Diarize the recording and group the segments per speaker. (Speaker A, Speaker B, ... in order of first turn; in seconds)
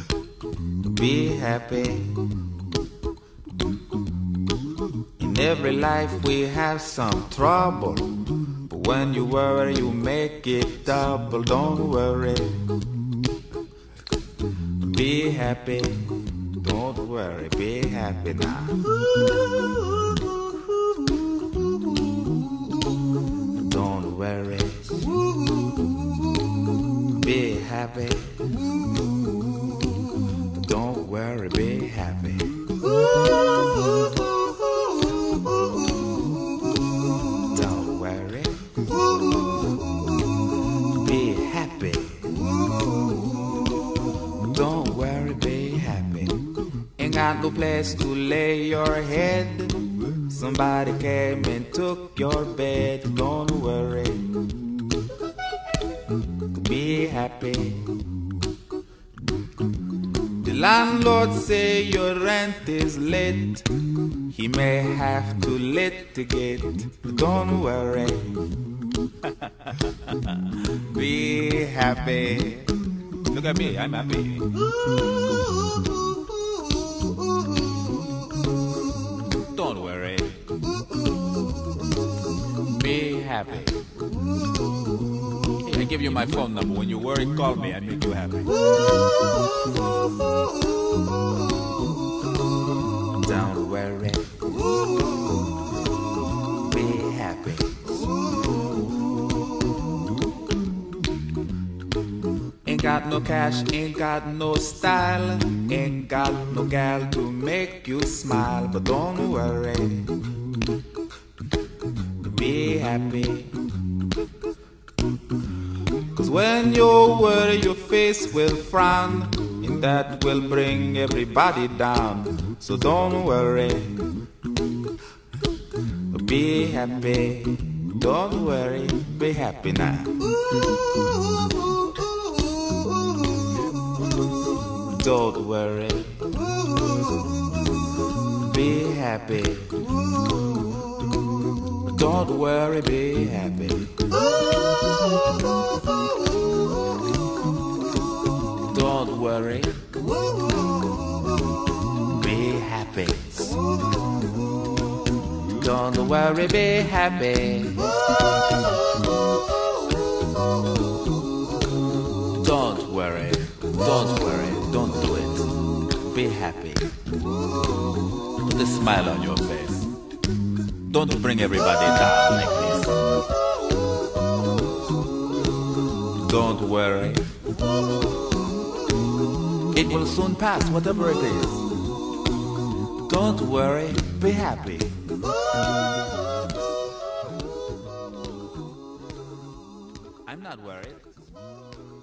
Speaker A: 0.8-2.4, 5.2-12.7, 14.7-18.8, 23.5-25.1, 27.1-28.6, 30.5-32.6, 37.4-38.7, 40.9-42.4, 44.4-54.4, 56.4-58.0, 60.4-68.4, 69.2-74.6, 79.4-80.4, 82.6-83.9, 85.6-88.5, 93.1-94.5, 96.5-98.0, 102.6-110.2, 112.2-113.6, 116.1-124.1, 126.1-130.2, 134.8-136.3, 138.4-140.1, 141.8-144.0, 148.6-149.9, 152.0-153.6, 155.5-157.9, 162.3-167.0, 168.4-169.9, 170.8-173.0, 176.1-177.3, 179.7-181.7, 183.0-185.0, 190.2-191.1